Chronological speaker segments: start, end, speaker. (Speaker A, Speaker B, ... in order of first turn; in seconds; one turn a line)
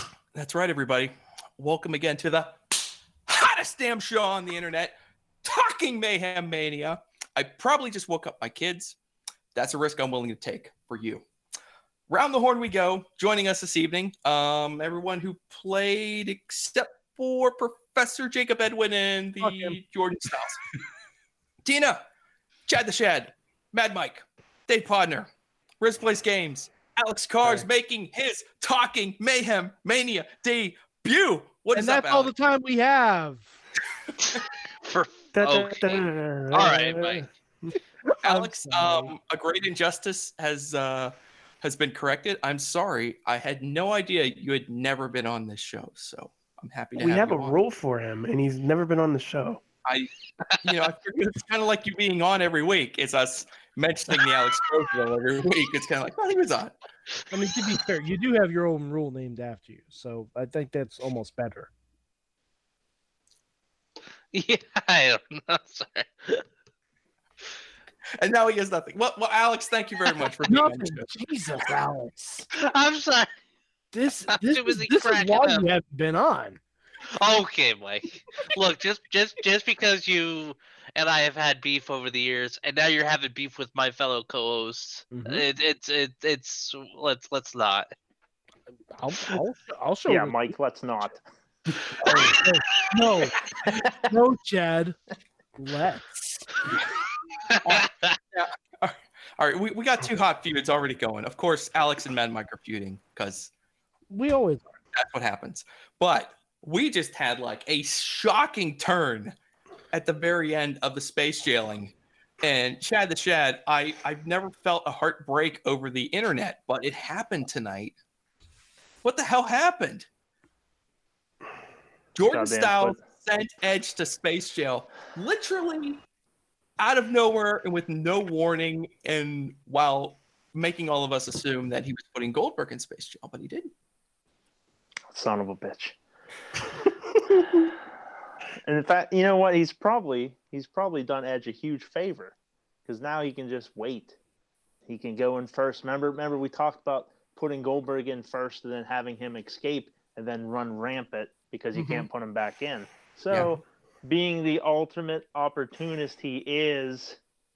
Speaker A: 0.3-2.7
Speaker A: 3.3-9.0
Speaker A: 9.5-11.2
Speaker A: 12.1-20.6
Speaker B: 19.4-19.8
Speaker A: 21.6-22.0
Speaker A: 22.7-25.3
Speaker A: 25.8-32.3
Speaker B: 31.7-33.6
Speaker C: 34.8-37.2
Speaker D: 35.3-37.7
Speaker B: 38.2-39.1
Speaker A: 38.2-47.6
Speaker D: 46.9-49.6
Speaker A: 49.8-50.1
Speaker A: 50.6-56.7
Speaker B: 57.3-61.7
Speaker C: 64.3-66.4
Speaker A: 68.2-71.1
Speaker B: 70.4-72.5
Speaker C: 72.6-73.3
Speaker B: 73.9-76.6
Speaker C: 74.4-75.7
Speaker C: 77.1-87.9
Speaker B: 85.1-85.4
Speaker B: 88.9-90.6
Speaker E: 90.0-91.2
Speaker B: 92.0-95.0
Speaker B: 95.5-96.5
Speaker A: 97.6-103.5
Speaker B: 104.1-104.8
Speaker A: 104.9-109.3
Speaker A: 109.9-117.9
Speaker A: 119.0-120.1
Speaker A: 122.1-126.0
Speaker E: 122.3-123.0
Speaker A: 126.8-133.7
Speaker E: 135.1-135.9
Speaker E: 138.6-142.3
Speaker E: 142.8-144.2
Speaker E: 144.8-157.2
Speaker B: 151.7-152.1
Speaker A: 153.3-153.6